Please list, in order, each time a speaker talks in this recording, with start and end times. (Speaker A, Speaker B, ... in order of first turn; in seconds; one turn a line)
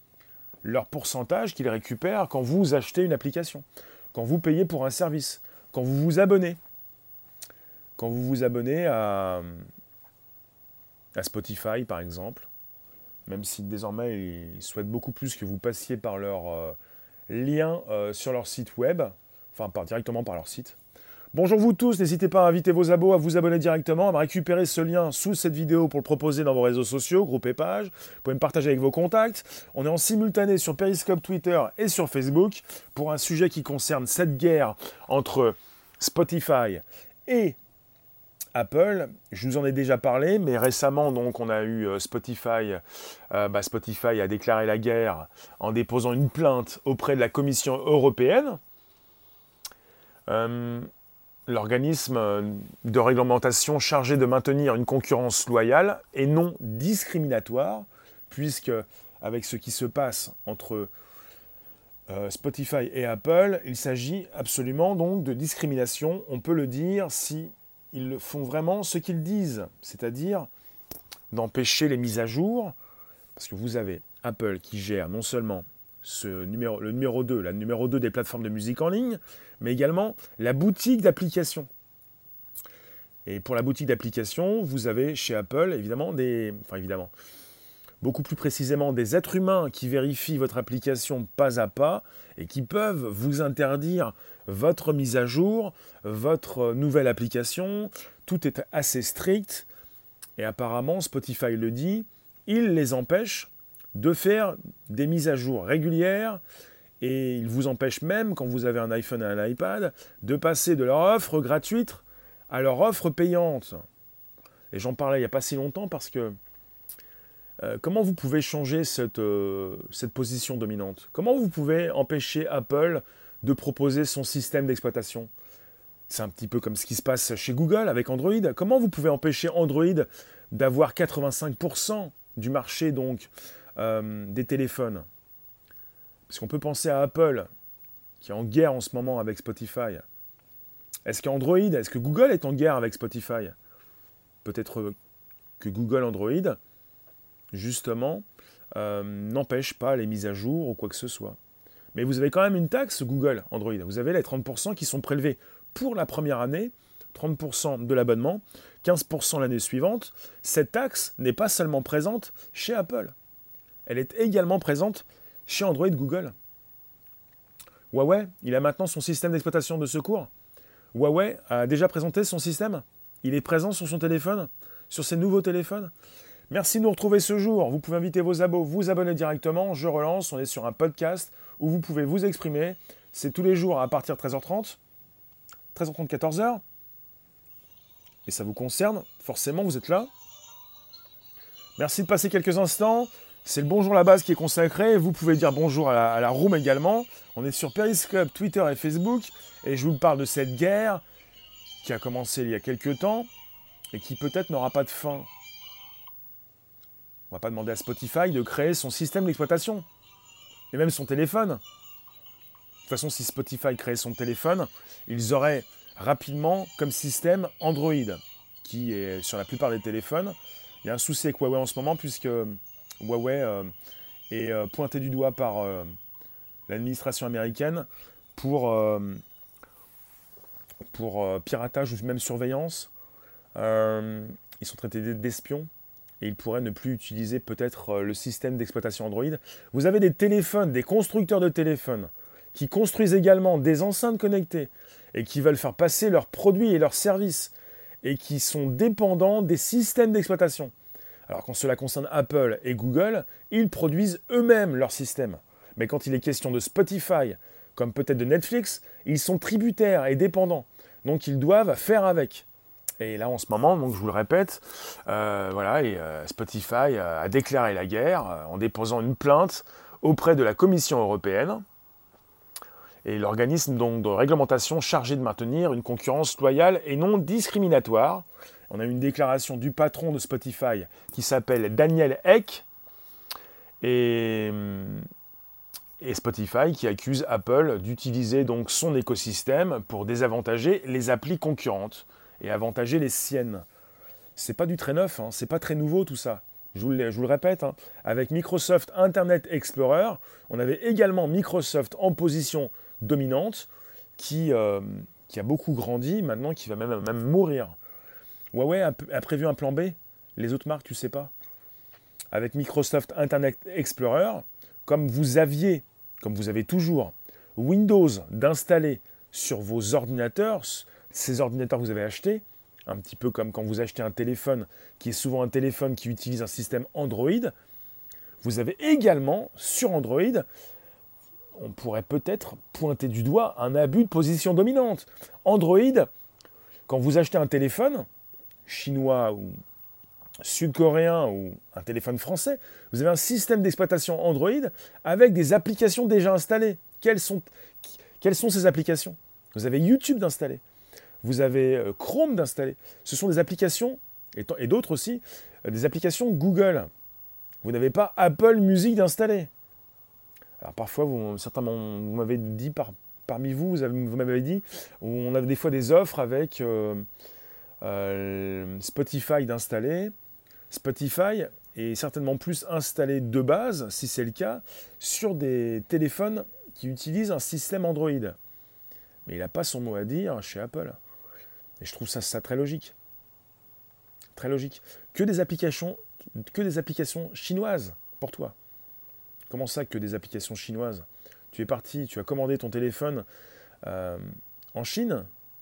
Speaker A: 0.6-6.6
Speaker A: 8.0-9.7
Speaker A: 11.2-12.5
Speaker A: 13.3-16.8
Speaker A: 17.3-20.8
Speaker A: 21.3-37.5
Speaker A: 38.5-48.6
Speaker A: 50.3-50.9
Speaker A: 51.5-60.9
Speaker A: 62.1-70.5
Speaker A: 71.3-72.7
Speaker A: 73.3-81.7
Speaker A: 83.2-87.1
Speaker A: 88.0-99.7
Speaker A: 100.4-106.4
Speaker A: 107.0-113.8
Speaker A: 114.7-116.3
Speaker A: 117.6-125.3
Speaker A: 126.1-135.1
Speaker A: 136.3-137.5
Speaker A: 138.2-140.0
Speaker A: 141.1-143.5
Speaker A: 144.4-144.9
Speaker A: 145.6-146.6
Speaker A: 147.5-151.4
Speaker A: 151.9-163.1
Speaker A: 163.8-166.3
Speaker A: 167.9-170.3
Speaker A: 170.9-175.9
Speaker A: 176.5-184.8
Speaker A: 185.7-186.6
Speaker A: 188.2-190.1
Speaker A: 191.8-201.0
Speaker A: 201.8-203.3
Speaker A: 203.9-205.3
Speaker A: 207.3-209.8
Speaker A: 210.7-211.6
Speaker A: 212.9-223.7
Speaker A: 224.3-225.9
Speaker A: 226.7-229.2
Speaker A: 230.9-232.9
Speaker A: 233.6-235.7
Speaker A: 236.2-250.7
Speaker A: 251.3-262.4
Speaker A: 263.0-271.6
Speaker A: 273.0-282.6
Speaker A: 283.8-285.1
Speaker A: 286.0-293.6
Speaker A: 294.4-307.8
Speaker A: 308.5-311.3
Speaker A: 312.3-327.5
Speaker A: 328.4-330.4
Speaker A: 331.6-336.1
Speaker A: 336.9-338.1
Speaker A: 338.6-339.6
Speaker A: 340.4-350.6
Speaker A: 351.2-356.9
Speaker A: 357.6-359.5
Speaker A: 360.6-367.1
Speaker A: 367.8-370.1
Speaker A: 370.7-378.4
Speaker A: 379.2-381.0
Speaker A: 381.8-382.9
Speaker A: 384.3-388.5
Speaker A: 389.5-393.2
Speaker A: 393.8-395.3